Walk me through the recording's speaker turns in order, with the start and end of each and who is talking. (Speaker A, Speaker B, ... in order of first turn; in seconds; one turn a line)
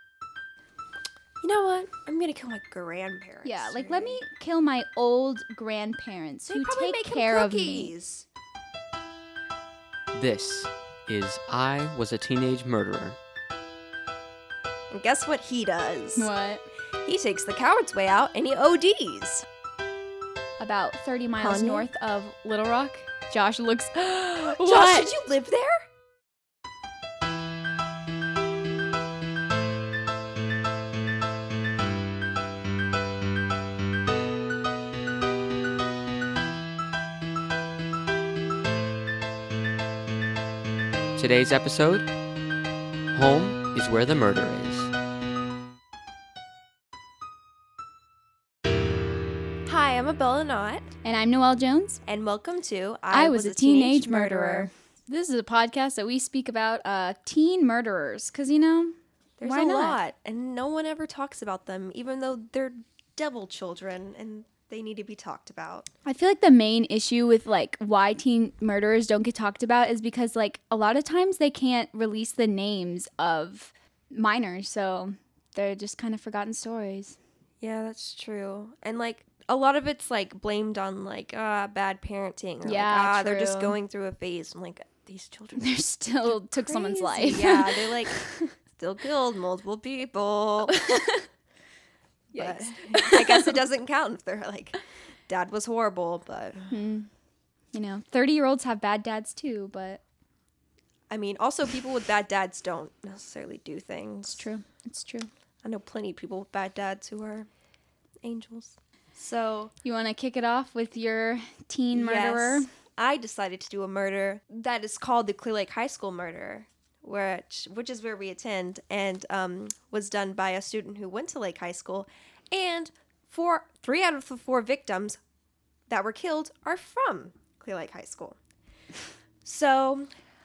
Speaker A: 1.4-4.2
Speaker B: 3.4-7.9
Speaker A: 6.5-8.3
Speaker C: 10.1-13.2
Speaker A: 14.9-16.3
Speaker B: 16.2-16.7
Speaker A: 17.0-19.4
Speaker B: 20.6-25.1
Speaker A: 21.4-21.8
Speaker A: 24.4-25.8
Speaker C: 41.2-42.1
Speaker C: 43.1-44.9
Speaker A: 49.7-50.9
Speaker B: 51.0-52.0
Speaker A: 52.0-54.7
Speaker B: 53.1-60.0
Speaker A: 59.4-65.9
Speaker B: 66.0-77.2
Speaker A: 77.6-90.8
Speaker B: 82.6-83.8
Speaker B: 85.6-88.5
Speaker B: 90.8-91.2
Speaker B: 92.3-93.6
Speaker A: 92.3-96.7
Speaker B: 96.7-97.1
Speaker B: 97.7-100.0
Speaker A: 101.1-104.5
Speaker B: 104.3-105.3
Speaker A: 105.6-107.5
Speaker A: 108.2-109.7
Speaker B: 109.8-112.7
Speaker A: 111.9-125.2
Speaker A: 125.9-128.4
Speaker A: 129.4-130.1